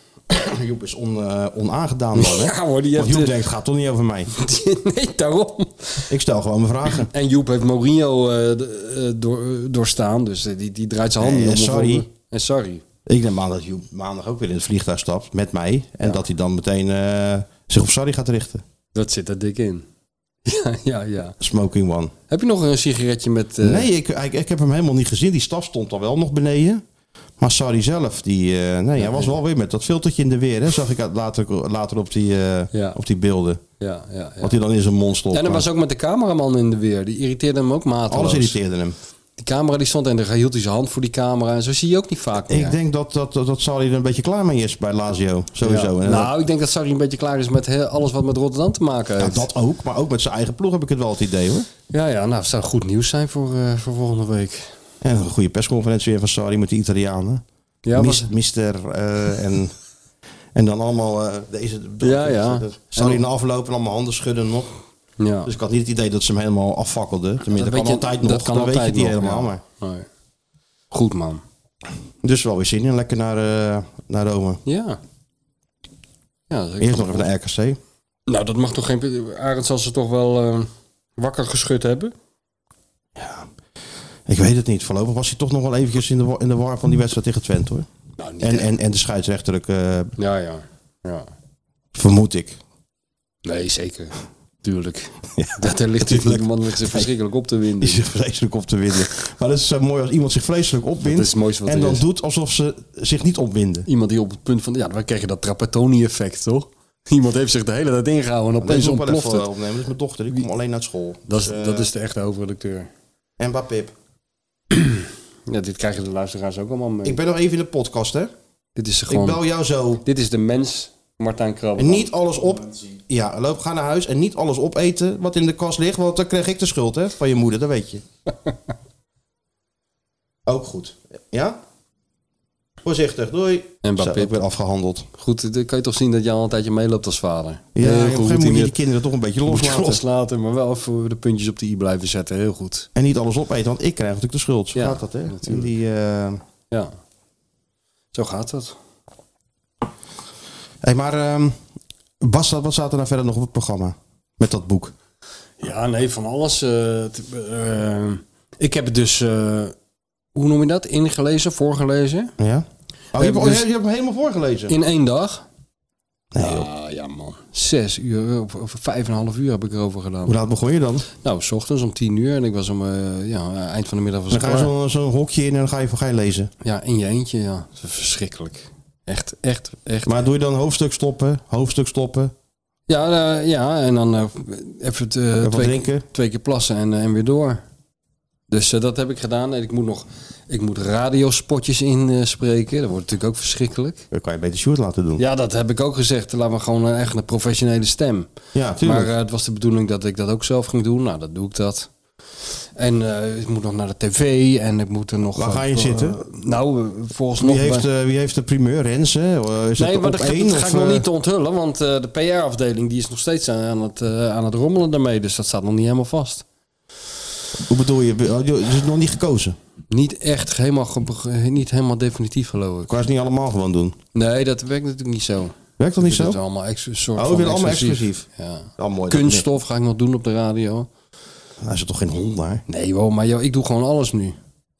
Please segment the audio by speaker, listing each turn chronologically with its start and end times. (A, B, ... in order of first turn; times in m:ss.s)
0:00.3-0:04.3 A
0:02.1-0:03.3 B
0:04.3-0:06.1 B
0:06.1-0:07.1 A
0:07.1-0:12.8 B
0:11.2-0:12.0 A
0:13.0-0:18.6 A
0:18.9-0:19.8 B
0:20.4-0:21.4 B
0:21.4-0:22.1 A
0:22.3-0:23.9 B
0:23.6-0:26.8 A
0:27.4-0:33.6 A
0:29.0-0:29.3 B
0:32.7-0:33.0 B
0:33.8-0:34.5 B
0:34.4-0:35.6 A
0:35.3-0:38.6 B
0:38.1-0:39.0 A
0:39.4-0:42.8 B
0:42.5-0:46.3 A
0:45.6-0:49.5 B
0:49.2-0:51.7 A
0:51.9-0:54.7 B
0:55.0-0:59.7 A
0:57.8-0:58.3 B
1:00.5-1:04.7 A
1:02.0-1:03.2 B
1:05.2-1:05.5 B
1:05.4-1:09.6 A
1:07.6-1:10.1 B
1:10.9-1:11.4 B
1:12.2-1:14.6 A
1:14.6-1:15.0 B
1:16.5-1:17.3 B
1:16.8-1:17.8 A
1:18.3-1:22.1 B
1:23.2-1:23.5 A
1:24.3-1:27.9 A
1:28.2-1:28.7 B
1:28.4-1:30.1 A
1:30.2-1:31.3 B
1:31.9-1:32.6 A
1:33.4-1:38.0 B
1:35.4-1:37.1 A
1:37.8-1:43.9 A
1:41.0-1:42.0 B
1:43.9-1:49.4 B
1:48.6-1:51.9 A
1:51.3-1:52.9 B
1:53.4-1:53.9 A
1:54.7-1:57.2 B
1:57.0-1:58.3 A
1:58.8-1:59.4 B
1:59.1-2:00.0 A
2:00.0-2:02.1 B
2:01.8-2:08.0 A
2:10.4-2:11.6 A
2:12.8-2:15.1 A
2:13.8-2:14.4 B
2:15.1-2:18.7 B
2:17.7-2:20.0 A
2:19.5-2:22.9 B
2:22.9-2:26.4 A
2:24.7-2:25.7 B
2:28.1-2:28.7 B
2:30.8-2:31.6 A
2:32.2-2:34.9 A
2:35.6-2:39.7 B
2:40.3-2:42.3 B
2:42.4-2:44.7 A
2:43.2-2:43.6 B
2:44.7-2:45.4 B
2:46.3-2:46.7 A
2:46.4-2:50.4 B
2:50.2-2:51.0 A
2:51.2-2:54.7 B
2:54.3-2:56.5 A
2:56.6-3:00.1 B
3:00.0-3:02.3 A
3:02.9-3:07.6 B
3:05.4-3:06.0 A
3:08.5-3:14.0 B
3:14.1-3:15.2 A
3:15.2-3:18.3 B
3:18.5-3:19.1 A
3:18.8-3:21.9 B
3:22.8-3:27.9 B
3:25.3-3:26.2 A
3:27.4-3:31.0 A
3:29.8-3:36.4 B
3:37.7-3:39.6 A
3:39.9-3:42.9 B
3:42.9-3:44.0 A
3:44.1-3:50.9 B
3:45.8-3:46.4 A
3:47.2-3:48.2 A
3:48.8-3:49.4 A
3:51.6-3:52.6 A
3:52.7-3:54.4 B